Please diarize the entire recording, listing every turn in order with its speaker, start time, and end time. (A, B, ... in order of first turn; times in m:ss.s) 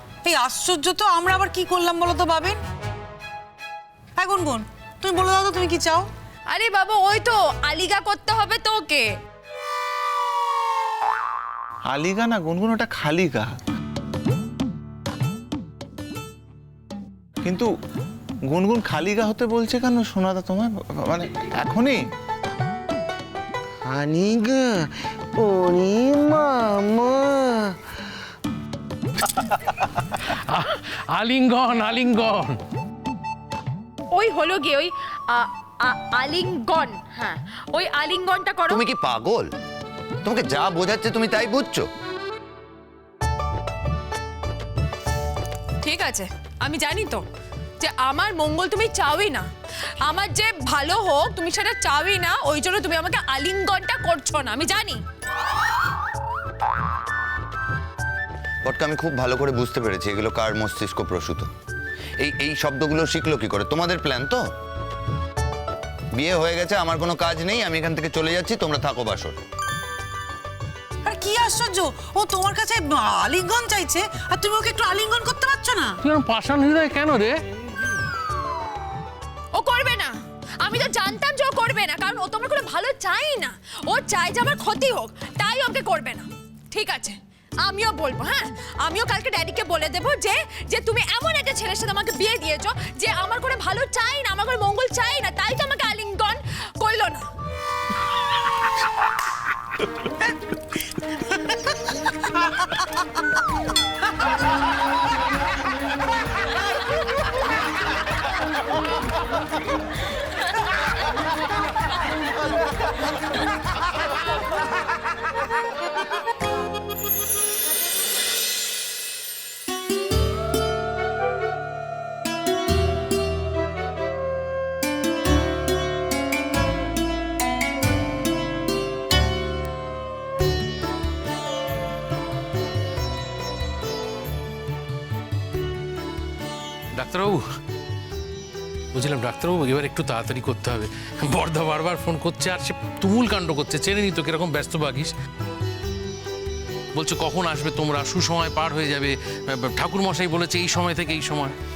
0:00.2-0:02.6 A
0:04.2-0:06.1 A
0:06.5-0:09.1 B
0:11.9-0:13.5 C
0:17.4-0:17.7 C
0:18.5-0:22.0 C
0:24.0-0:24.4 D
0:25.6-0:27.0 D
0:29.5-0:32.6 E
0:34.1-0:38.8 B
0:38.7-0:39.5 D
0:40.2-0:41.9 D
0:45.8-0:47.2 B
0:47.8-0:49.5 B
0:50.0-0:55.0 B
0:58.6-1:01.5 D
1:02.2-1:04.4 D
1:06.1-1:09.4 D
1:11.0-1:16.0 A
1:16.0-1:17.4 E
1:19.5-1:37.2 B
2:16.9-2:17.4 E
2:18.9-2:25.1 E
2:26.9-2:31.6 E